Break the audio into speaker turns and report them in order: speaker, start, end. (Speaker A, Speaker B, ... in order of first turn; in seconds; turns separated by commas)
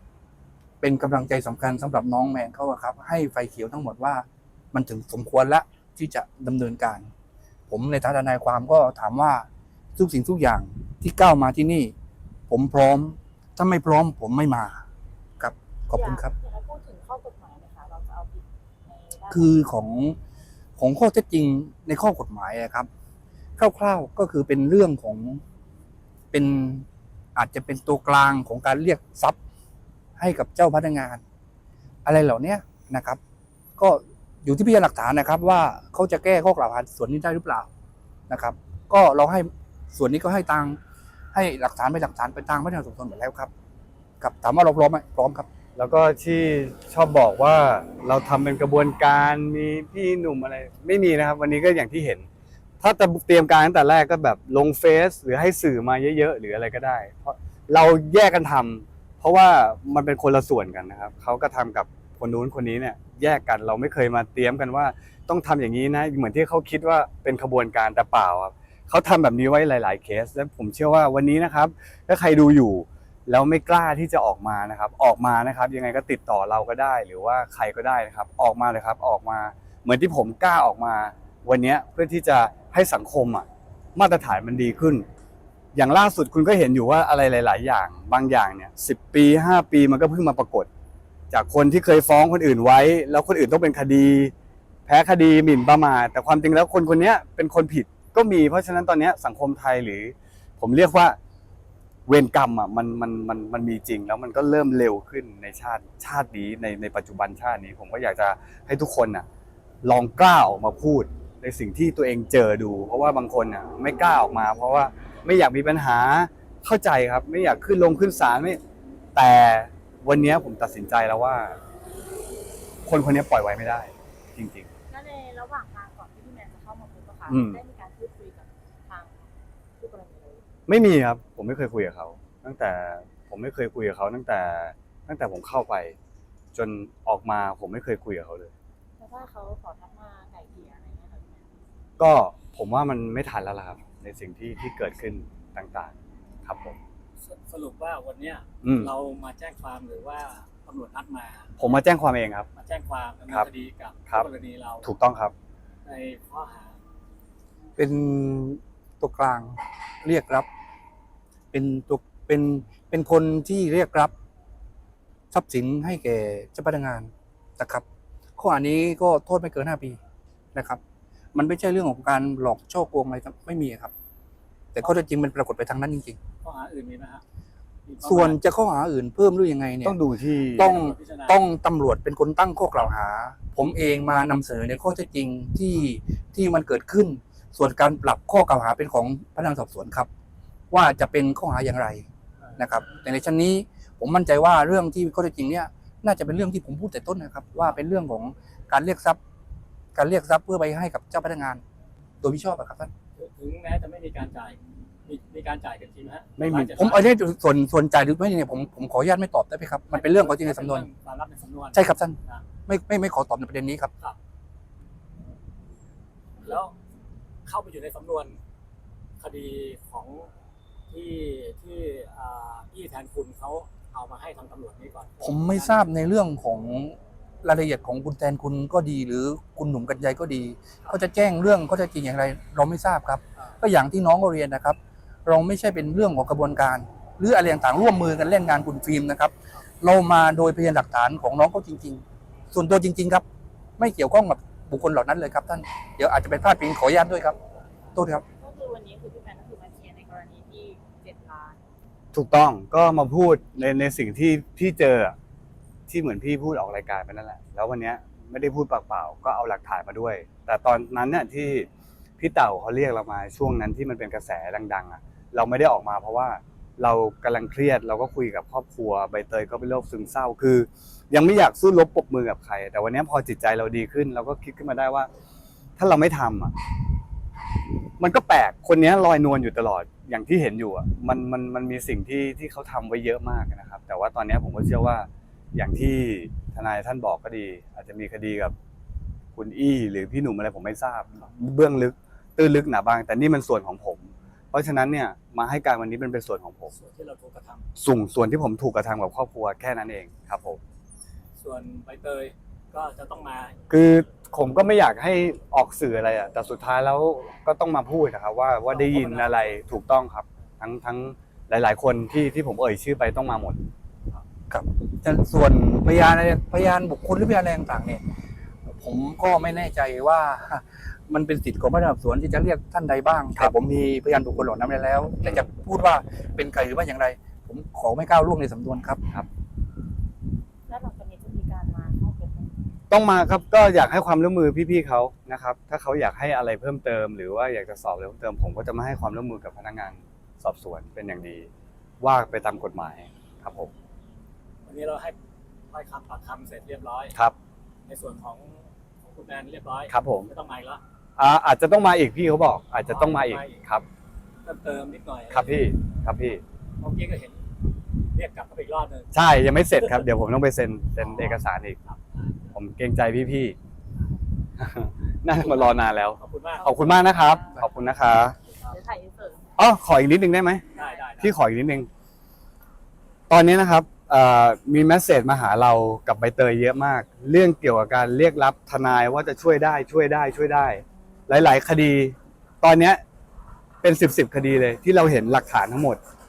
Speaker A: 0.8-7.1, Speaker A: 7.7-9.5, Speaker A: 10.0-11.9, Speaker A: 12.5-14.8, Speaker A: 15.4-16.3, Speaker B: 15.9-19.6, Speaker A: 19.3-20.2, Speaker A: 20.8-22.9, Speaker A: 23.6-25.4, Speaker A: 26.3-29.4, Speaker A: 30.2-31.2, Speaker A: 32.0-33.2, Speaker A: 33.8-37.7, Speaker A: 38.3-40.8, Speaker A: 41.3-43.5, Speaker A: 44.2-45.5, Speaker C: 45.8-52.3, Speaker C: 52.8-85.1, Speaker C: 85.8-90.7, Speaker C: 91.3-94.3, Speaker C: 94.9-101.2, Speaker C: 102.1-109.3, Speaker C: 109.8-118.6, Speaker C: 119.2-121.6, Speaker C: 122.9-124.7, Speaker B: 124.9-130.4, Speaker C: 127.3-127.6, Speaker C: 130.7-136.0, Speaker C: 136.5-138.5, Speaker B: 139.0-141.5, Speaker C: 142.0-145.9, Speaker C: 146.4-146.8, Speaker D: 147.2-151.6, Speaker C: 148.6-148.9, Speaker C: 151.6-152.5, Speaker D: 152.6-154.9, Speaker C: 154.8-155.3, Speaker D: 155.8-156.8, Speaker A: 157.8-160.5, Speaker A: 161.5-164.1, Speaker A: 165.3-167.8, Speaker A: 168.4-170.0, Speaker A: 170.5-170.8, Speaker A: 171.3-173.9, Speaker A: 174.8-176.2, Speaker D: 176.4-177.2, Speaker D: 177.9-178.4, Speaker A: 178.0-180.0, Speaker C: 179.8-180.8, Speaker D: 180.6-181.4, Speaker A: 180.6-190.1, Speaker A: 190.7-192.0, Speaker A: 192.6-199.2, Speaker A: 199.9-201.6, Speaker A: 202.2-202.9, Speaker D: 203.2-207.1, Speaker C: 206.4-206.8, Speaker A: 206.8-210.9, Speaker D: 209.9-212.4, Speaker A: 211.7-213.9, Speaker D: 216.4-216.7, Speaker D: 217.4-218.4, Speaker D: 219.2-220.3, Speaker D: 220.9-225.9, Speaker A: 225.2-243.2, Speaker A: 243.8-247.4, Speaker A: 247.9-248.2, Speaker B: 248.4-251.7, Speaker C: 252.1-255.2, Speaker C: 255.9-261.7, Speaker C: 262.2-275.1, Speaker C: 275.8-276.6, Speaker C: 278.0-288.6, Speaker C: 289.4-296.7, Speaker D: 296.7-297.7, Speaker C: 297.8-300.6, Speaker D: 301.4-303.6, Speaker C: 303.7-313.6, Speaker D: 308.7-309.9, Speaker A: 314.5-318.0, Speaker A: 318.8-329.0, Speaker B: 330.7-332.7, Speaker C: 332.9-343.7, Speaker D: 344.6-345.2, Speaker D: 345.7-347.2, Speaker D: 347.9-350.8, Speaker C: 349.9-350.3, Speaker C: 351.2-353.9, Speaker D: 352.9-353.6, Speaker D: 354.4-355.7, Speaker C: 355.3-356.4, Speaker D: 356.8-357.4, Speaker D: 358.1-359.1, Speaker C: 359.1-361.8, Speaker D: 361.0-362.4, Speaker C: 362.5-363.6, Speaker C: 364.6-368.4, Speaker D: 365.4-366.9, Speaker B: 366.8-367.7, Speaker B: 368.7-369.5, Speaker C: 369.6-370.7, Speaker B: 370.7-371.0, Speaker D: 370.7-371.4, Speaker C: 371.2-371.9, Speaker C: 373.3-383.0, Speaker C: 383.8-386.0